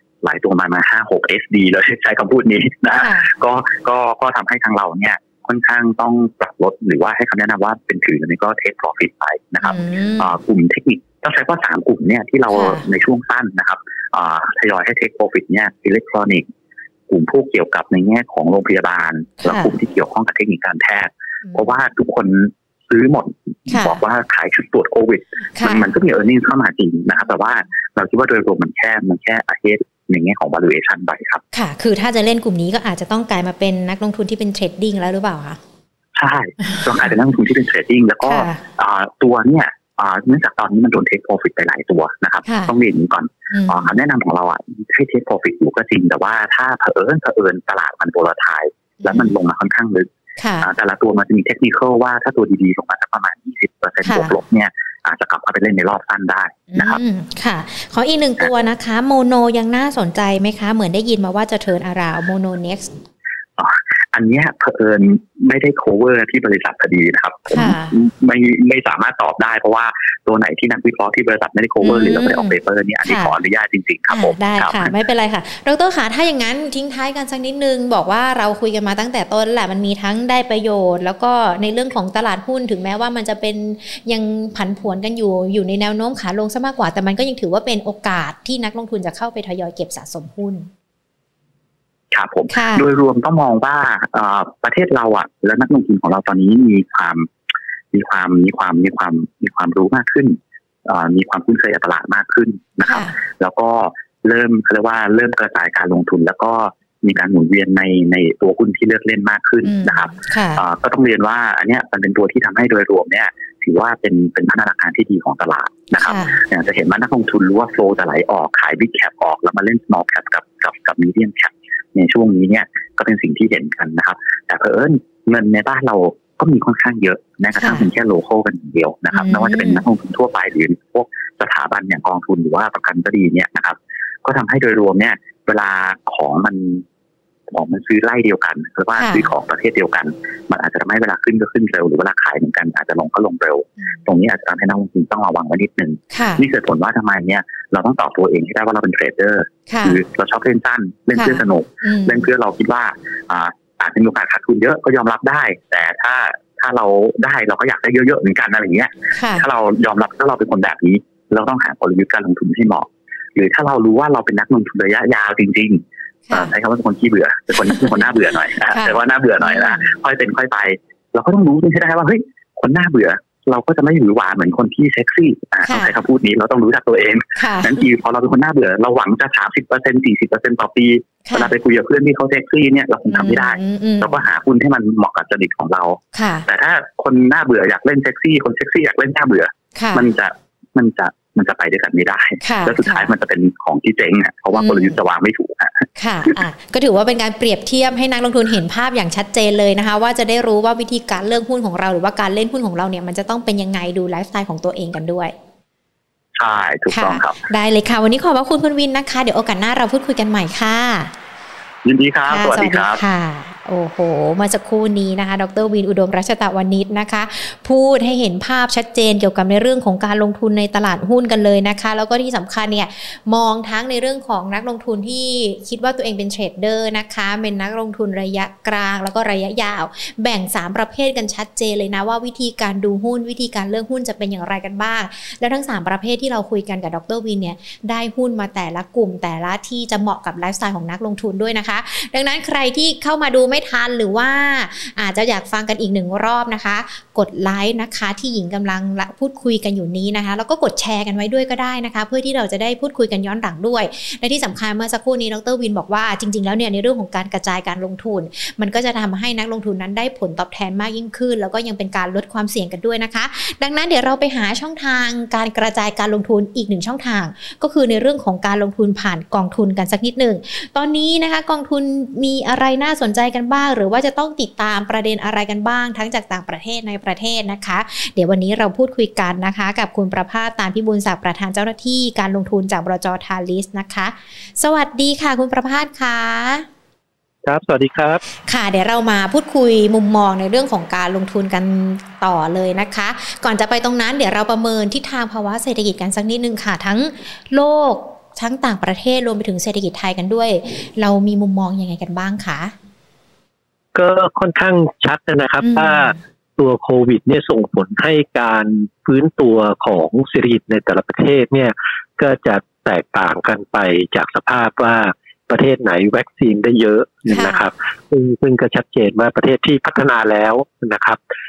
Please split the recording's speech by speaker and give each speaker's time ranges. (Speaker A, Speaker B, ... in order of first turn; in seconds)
Speaker A: 0.2-16.4, 17.1-31.4, 36.1-50.1, 50.6-57.0, 63.6-74.9, 92.1-97.3, 97.9-136.9, 137.5-165.8, 166.3-196.3, 206.4-207.4, 211.8-213.0
Speaker B: 2.9-3.3, 9.6-10.3, 12.5-12.9, 19.4-19.7, 23.7-24.0, 25.6-25.9, 31.5-35.6, 36.6-36.9, 38.2-38.6, 42.5-42.7, 43.5-43.9, 49.0-49.3, 50.4-50.7, 54.0-54.4, 56.7-63.0, 67.5-68.0, 71.8-73.3, 74.1-90.7, 92.5-92.9, 102.8-103.2, 109.6-110.6, 116.0-116.4, 127.6-127.9, 129.1-129.8, 139.0-139.3, 146.1-146.4, 149.7-150.0, 151.2-152.3, 159.2-159.4, 166.3-166.5, 167.6-167.9, 168.7-169.8, 175.7-176.0, 177.4-177.8, 181.3-181.5, 183.1-184.2, 186.1-186.5, 189.8-190.1, 192.4-193.1, 194.5-195.0, 196.0-205.3, 206.9-211.1, 212.3-286.7, 288.5-302.7, 305.6-306.1, 317.3-317.7
Speaker C: 287.4-288.2, 303.9-321.2